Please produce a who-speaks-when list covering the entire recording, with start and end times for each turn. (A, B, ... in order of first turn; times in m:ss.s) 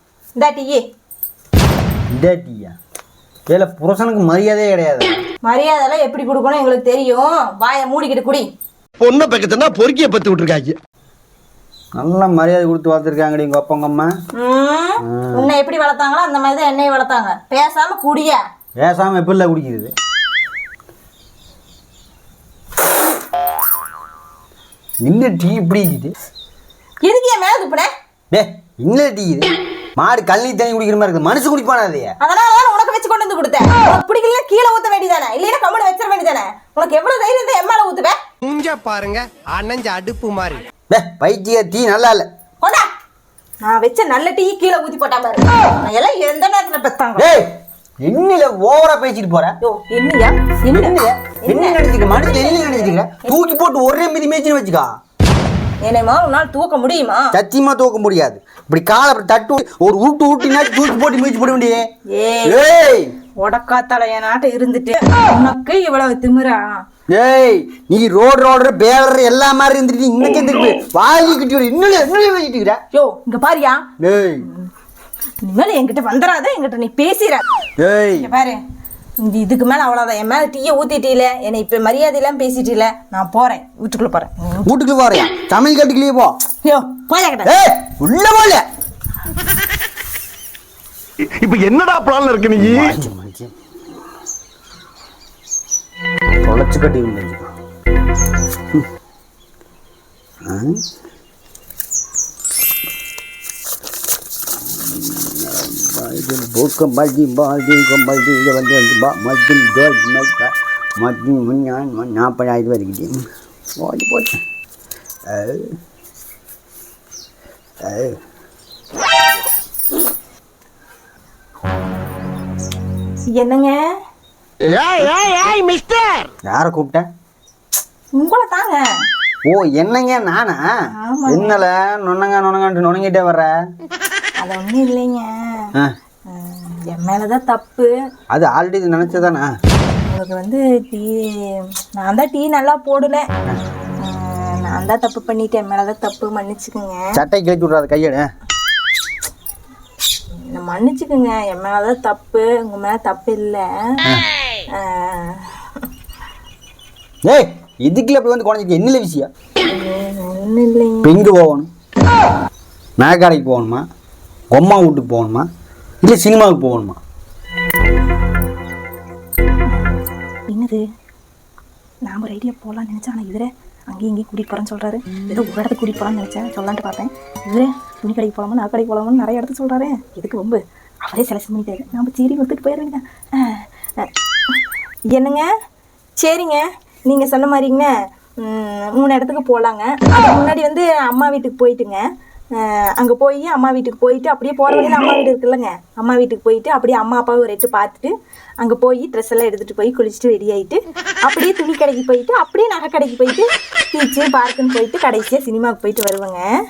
0:00.4-0:00.8 A
0:02.1-0:02.7 B
0:03.5-0:05.2 B
0:05.4-0:08.4 A
0:09.0-0:10.8 C
0:12.0-0:14.1 B
0:14.3-0:18.4 A
0:15.0-0:15.5 B
0:18.8-0:19.9 B
0:25.0-0:26.1 B
0:27.0-0:27.9 A
0:28.3-0:32.1 B
0:32.2-0:38.2 A
0:38.4-0:40.6 D
0:40.9-0:42.3 B
0:42.6-0:42.8 A
0:43.6-0:47.3 A
0:47.2-0:47.5 B
0:48.0-0:49.5 B
0:49.6-0:53.4 A
0:50.7-0:54.9 B
0:55.8-0:57.3 A
0:57.3-1:01.9 B
1:02.1-1:02.6 A
1:02.4-1:03.1 B
1:03.4-1:06.8 A
1:07.1-1:12.8 B
1:12.9-1:13.9 A
1:14.0-1:14.4 B
1:15.4-1:17.4 A
1:17.8-1:18.3 B
1:18.1-1:18.6 A
1:19.2-1:24.7 A
1:24.6-1:26.3 B
1:26.6-1:27.5 A
1:27.4-1:28.6 B
1:31.4-1:33.0 C
1:32.6-1:33.5 B
1:36.4-1:37.5 B
1:40.4-1:40.8 B
1:44.7-1:53.2 B
1:53.8-1:54.4 B
1:55.3-1:55.7 B
1:57.8-1:58.2 B
2:03.4-2:03.8 A
2:04.6-2:06.2 C
2:06.4-2:07.0 B
2:08.1-2:08.9 A
2:09.4-2:10.6 B
2:11.0-2:11.6 A
2:11.3-2:13.5 B
2:14.4-2:15.6 A
2:16.3-2:17.9 A
2:18.3-2:19.5 B
2:20.0-2:23.2 A
2:24.0-2:27.2 A
2:27.1-2:28.3 B
2:30.4-2:34.0 A
2:34.7-2:35.8 A
2:37.2-2:39.3 B
2:39.6-2:41.1 A
2:41.0-2:41.7 B
2:43.0-2:43.8 B
2:44.5-2:45.5 B
2:46.0-2:47.0 B
2:50.5-2:50.8 A
2:52.0-3:04.6 A
3:05.1-3:05.5 A
3:06.2-3:12.0 A
3:12.5-3:26.4 A